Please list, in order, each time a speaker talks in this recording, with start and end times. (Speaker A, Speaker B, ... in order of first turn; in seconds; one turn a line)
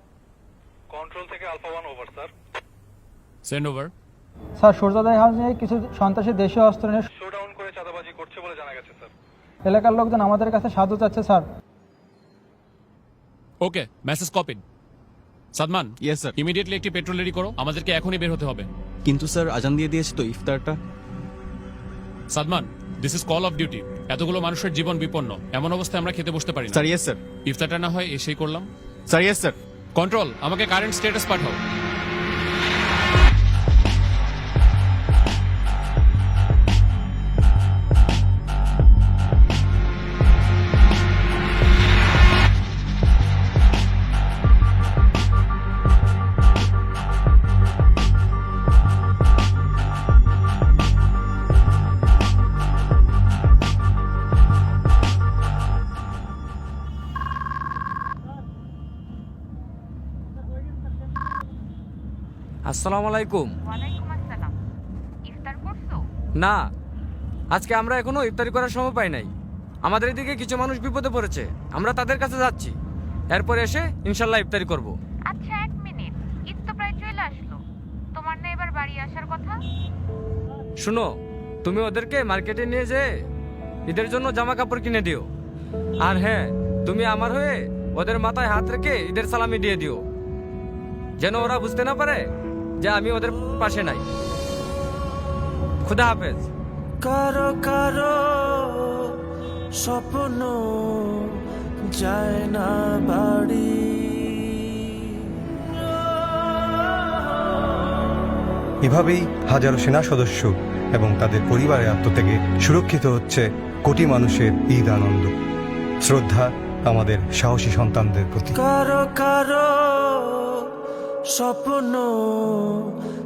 Speaker A: 0.9-2.3
Speaker B: 3.4-3.9
Speaker C: 4.6-7.1
Speaker A: 7.1-9.1
Speaker C: 9.6-11.4
Speaker B: 13.6-14.6
Speaker B: 15.5-18.7
Speaker D: 16.0-16.3
Speaker D: 19.1-20.8
Speaker B: 22.3-26.8
Speaker D: 26.7-27.2
Speaker B: 27.4-28.6
Speaker D: 29.1-29.6
Speaker B: 29.9-31.6
Speaker E: 62.7-63.5
Speaker F: 63.6-64.5
Speaker F: 65.2-66.0
Speaker E: 67.5-69.3
Speaker E: 69.8-72.7
Speaker E: 73.3-74.9
Speaker F: 75.3-77.6
Speaker F: 78.1-79.6
Speaker E: 80.8-81.1
Speaker E: 81.6-83.1
Speaker E: 83.9-85.3
Speaker E: 86.0-90.0
Speaker E: 91.2-92.3
Speaker E: 92.8-94.0
Speaker E: 95.8-96.5
Speaker G: 97.0-99.2
Speaker G: 99.7-105.3
Speaker H: 108.8-115.3
Speaker H: 116.0-118.6
Speaker G: 118.5-120.7
Speaker G: 121.3-122.9